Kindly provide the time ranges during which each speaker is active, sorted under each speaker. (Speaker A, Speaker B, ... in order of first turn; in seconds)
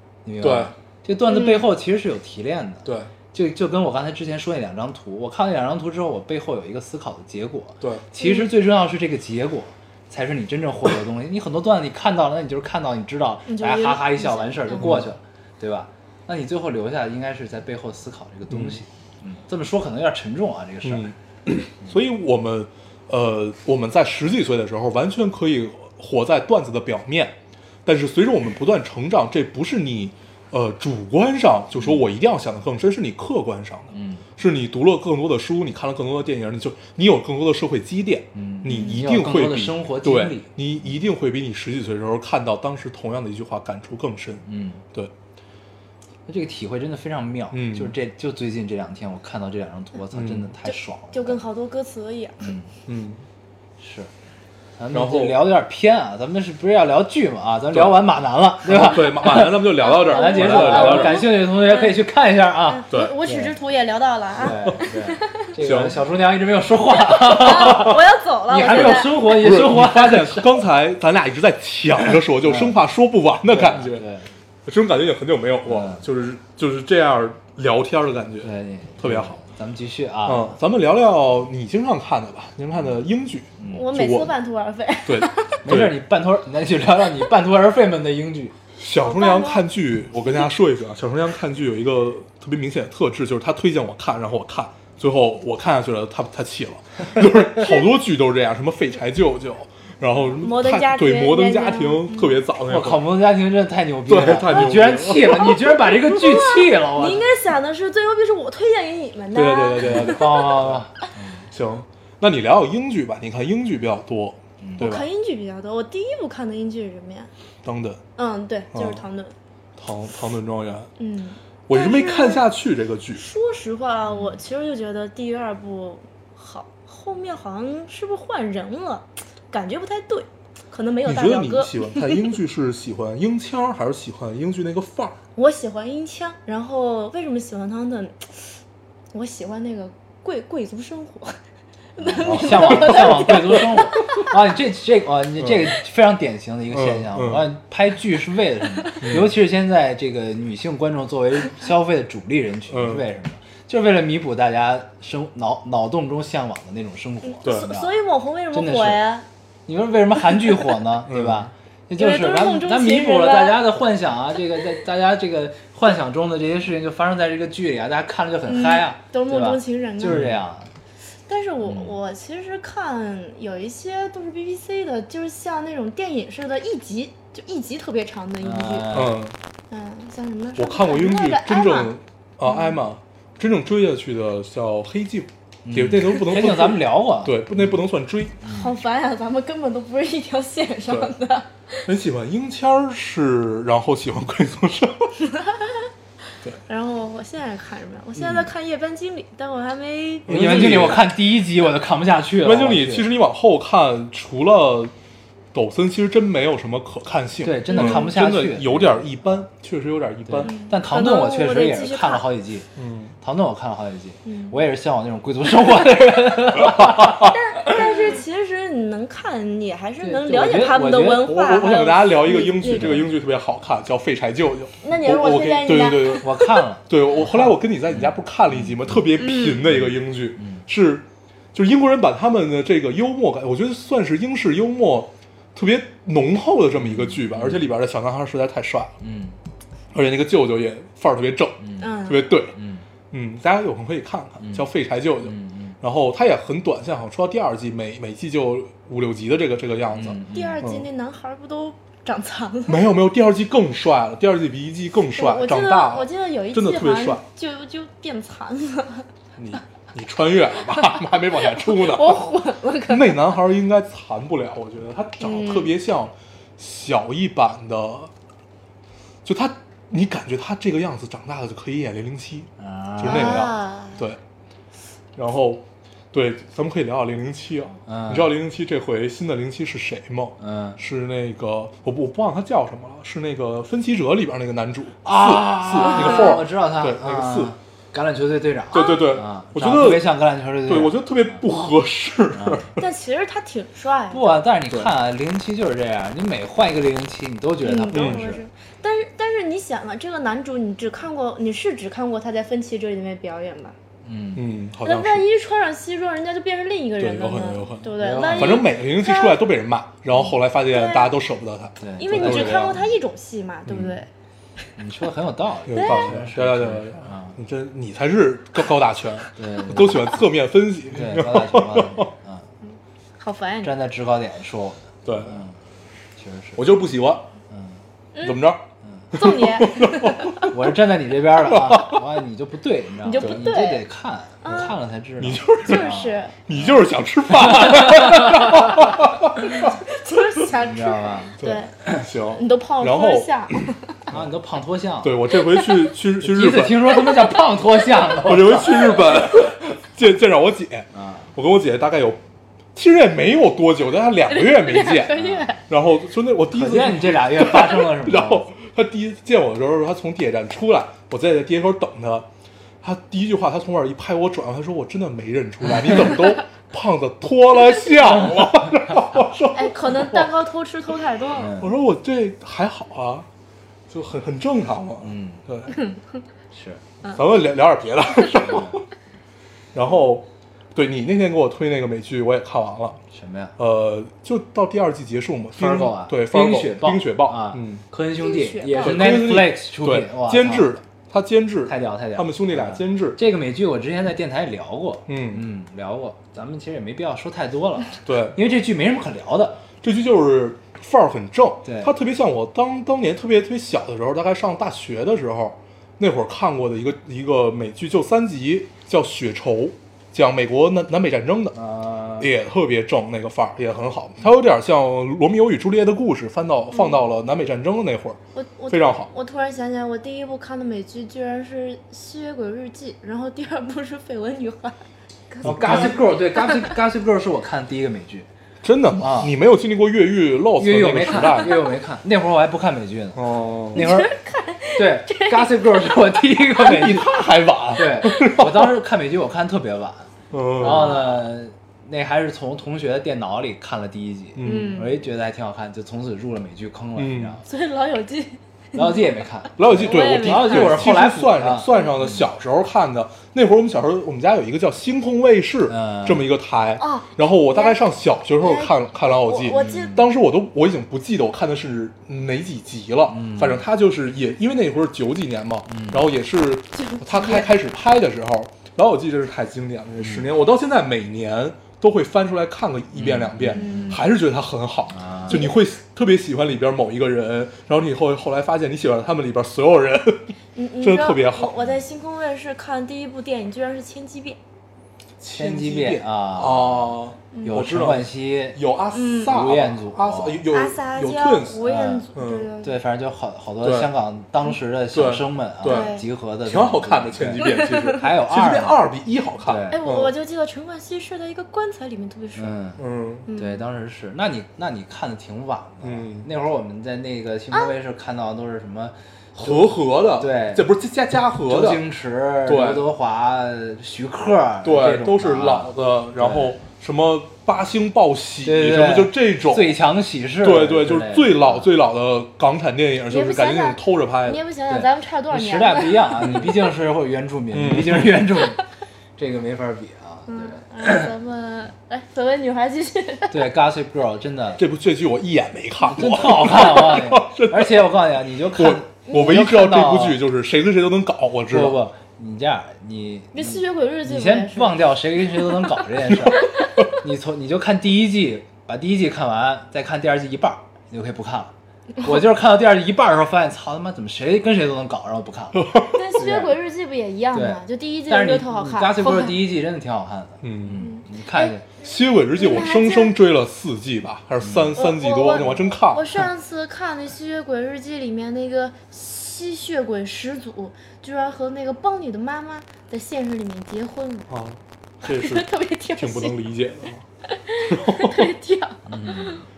Speaker A: 0.2-21.1, 31.8-32.0, 33.9-34.2, 38.3-40.5, 44.5-44.8, 46.3-51.4, 52.4-52.7, 53.8-54.1, 54.8-63.5, 64.3-70.5, 72.4-72.8, 73.5-74.3, 75.7-76.0, 78.4-80.6, 83.6-83.8, 85.6-88.5, 102.7-107.3, 109.8-111.5, 114.6-114.9, 124.1-124.4, 142.0-157.9, 158.5-159.0, 159.7-170.7, 171.6-171.9, 178.4-179.2, 185.6-187.8, 188.4-188.7, 198.2-198.4, 200.3-203.1, 207.4-209.2, 210.2-212.7, 213.2-217.7, 220.0-221.3, 222.8-223.0, 226.2-229.1, 229.7-230.6, 236.8-237.7, 239.0-239.4, 241.6-241.9, 242.5-242.8, 244.4-244.7, 245.2-245.8, 249.9-250.6, 272.6-273.5, 277.9-278.3, 280.4-280.8, 285.0-291.4, 292.3-292.7, 294.1-298.4, 304.0-304.4, 308.0-308.7, 311.8-312.9, 313.7-314.0, 314.8-317.4, 319.4-320.1, 320.9-322.5, 323.6-325.6, 326.1-326.6, 327.5-327.8, 328.8-329.1, 330.5-336.8, 337.4-338.9, 340.6-341.3, 344.1-345.2, 346.2-349.0, 350.9-351.3, 355.1-355.5, 356.5-358.5, 371.3-371.7, 375.0-375.4, 376.5-376.8, 378.3-378.8, 383.1-383.5, 385.6-390.7, 391.6-399.6, 401.6-401.9, 411.5-412.3, 425.4-428.3, 429.0-429.3, 430.6-433.2, 433.7-434.1, 434.8-437.1, 437.7-447.4, 448.7-452.2, 455.7-456.3, 459.5-460.1, 463.1-463.6, 465.7-466.1, 470.0-470.2, 472.9-474.0, 474.9-475.4, 485.3-488.6, 489.2-490.4, 491.6-492.0, 492.6-498.8, 499.4-499.8, 502.4-502.8, 503.3-510.6, 511.4-516.5, 518.4-521.7, 524.7-528.6, 529.2-531.1, 533.3-534.6, 535.9-540.2, 541.5-556.5, 557.3-561.6, 564.4-564.7, 578.9-579.4
Speaker B: 0.4-0.7, 2.8-3.1, 14.8-15.0, 18.5-18.8, 20.8-45.1, 47.5-47.9, 50.1-50.5, 52.9-53.2, 54.9-55.4, 57.7-58.1, 58.6-61.3, 65.6-66.0, 68.7-74.0, 74.7-79.4, 80.2-84.3, 85.0-85.9, 88.8-103.0, 104.1-105.4, 109.3-110.8, 111.5-115.0, 117.6-118.0, 118.7-119.0, 119.8-120.9, 121.7-123.2, 131.0-135.2, 142.2-143.3, 146.7-147.4, 149.0-149.3, 152.7-153.0, 157.4-157.7, 161.1-161.5, 170.1-170.4, 178.9-179.4, 180.6-188.4, 191.8-195.2, 200.3-201.1, 202.4-204.9, 205.5-210.5, 212.8-213.1, 216.7-217.3, 221.2-226.2, 226.9-238.9, 239.9-242.5, 243.1-250.9, 252.7-257.2, 259.4-262.2, 262.9-268.1, 269.2-274.2, 275.1-287.5, 288.7-290.1, 290.6-292.8, 297.9-298.4, 304.3-305.3, 307.0-312.8, 315.7-322.1, 325.0-325.4, 326.6-327.3, 328.2-330.5, 331.5-332.0, 333.2-333.5, 335.2-335.9, 336.5-339.8, 341.4-344.2, 345.0-347.0, 348.2-352.2, 352.7-362.3, 362.8-370.3, 371.6-373.3, 373.9-375.8, 377.1-378.9, 379.7-383.0, 383.6-387.8, 388.8-393.2, 395.1-395.4, 398.0-398.4, 399.8-411.6, 412.2-418.2, 418.7-419.1, 425.4-426.0, 428.6-431.6, 433.1-433.8, 436.6-438.7, 440.3-441.0, 444.4-444.9, 447.0-447.4, 449.6-481.5, 485.2-492.5, 493.6-493.9, 494.9-500.1, 502.8-503.3, 505.8-506.3, 509.4-511.8, 512.5-512.8, 514.6-519.8, 520.4-524.4, 527.5-528.2, 534.6-537.9, 538.5-541.8, 555.5-556.0, 560.4-560.8, 561.8-566.3, 574.3-577.0, 577.6-578.4
Speaker C: 1.3-1.7, 8.2-8.5, 13.5-15.0, 50.6-52.5, 59.8-62.0, 62.7-65.4, 67.1-69.3, 83.7-85.6, 89.0-89.6, 100.4-102.4, 105.1-110.5, 114.8-117.3, 118.2-119.3, 121.0-122.5, 123.2-132.2, 135.3-138.5, 139.1-141.4, 141.9-144.2, 157.2-159.2, 162.0-163.7, 168.4-170.2, 171.3-179.0, 179.7-182.8, 188.4-191.9, 195.2-195.9, 196.7-200.9, 207.7-208.1, 210.4-212.3, 214.2-214.6, 217.2-223.1, 224.8-226.6, 229.2-229.6, 241.8-242.3, 250.3-252.9, 255.1-259.1, 261.5-263.3, 265.2-265.7, 273.0-274.0, 285.8-286.4, 288.7-289.1, 292.8-294.4, 297.6-303.7, 304.8-309.4, 310.7-311.1, 312.0-314.1, 315.7-316.2, 323.2-323.7, 328.1-328.5, 329.1-330.5, 333.0-333.8, 334.4-334.7, 335.6-336.3, 339.5-344.0, 345.4-345.9, 354.3-355.6, 369.5-371.5, 388.2-389.1, 416.7-417.0, 418.3-424.8, 425.3-426.8, 431.2-431.5, 433.7-436.9, 440.6-441.2, 444.4-445.0, 447.4-451.0, 456.8-457.9, 458.4-460.0, 466.7-467.5, 473.5-474.0, 475.3-475.6, 480.5-484.4, 487.3-487.6, 488.9-489.4, 490.5-492.8, 495.6-496.0, 497.4-498.0, 499.7-502.5, 503.3-503.6, 523.1-526.7, 530.3-533.5, 543.3-545.2, 555.8-559.4, 560.8-561.5, 562.3-563.1, 564.7-574.3, 575.0-576.4, 577.3-579.4